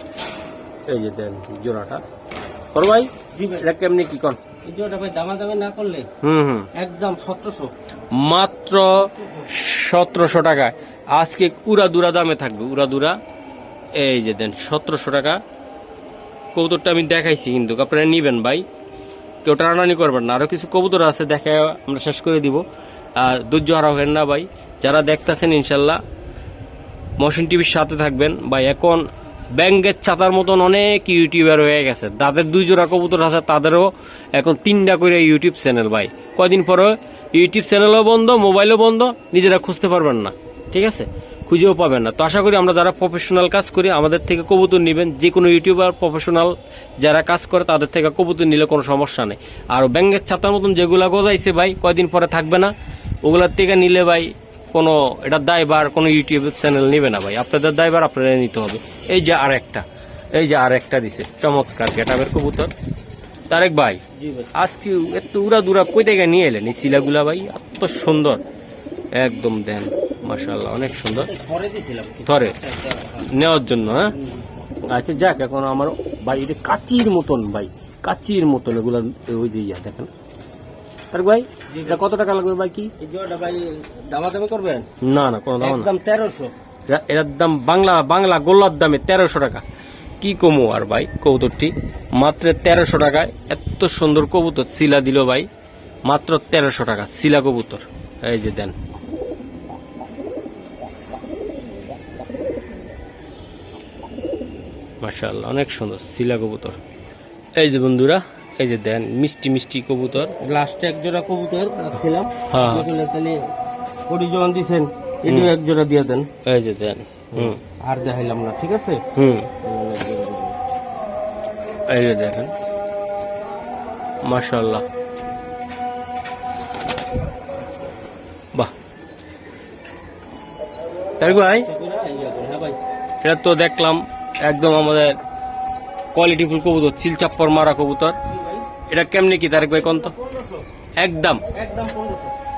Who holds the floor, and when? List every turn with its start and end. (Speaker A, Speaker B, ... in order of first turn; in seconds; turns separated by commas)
Speaker A: 0.9-2.0, Speaker A: 2.8-4.4, Speaker B: 3.3-3.7, Speaker B: 4.6-6.1, Speaker A: 6.2-6.7, Speaker B: 6.8-7.7, Speaker A: 8.1-13.2, Speaker B: 9.1-9.5, Speaker A: 14.0-15.4, Speaker A: 16.6-18.6, Speaker A: 19.4-22.6, Speaker A: 23.1-26.0, Speaker A: 27.2-52.7, Speaker A: 53.2-62.7, Speaker A: 63.5-64.0, Speaker B: 64.1-64.5, Speaker A: 64.5-68.4, Speaker A: 69.1-71.3, Speaker B: 71.1-73.3, Speaker A: 72.3-72.5, Speaker A: 73.3-74.1, Speaker B: 74.1-74.5, Speaker A: 74.9-80.1, Speaker A: 81.1-82.9, Speaker B: 81.7-82.0, Speaker B: 83.0-84.9, Speaker A: 85.0-85.9, Speaker B: 85.6-86.5, Speaker A: 86.9-89.6, Speaker A: 90.2-95.5, Speaker A: 96.1-98.7, Speaker A: 105.0-106.8, Speaker A: 107.6-110.3, Speaker B: 110.4-113.4, Speaker A: 112.5-112.9, Speaker B: 114.0-116.3, Speaker A: 116.5-117.6, Speaker B: 117.3-119.0, Speaker A: 119.1-119.5, Speaker B: 119.6-120.6, Speaker A: 121.9-122.5, Speaker A: 124.2-124.8, Speaker A: 131.2-131.7, Speaker B: 131.2-132.8, Speaker A: 133.2-135.2, Speaker A: 136.1-138.2, Speaker B: 138.2-138.7, Speaker A: 138.9-140.1, Speaker B: 139.6-140.7, Speaker A: 141.0-141.4, Speaker B: 141.5-142.3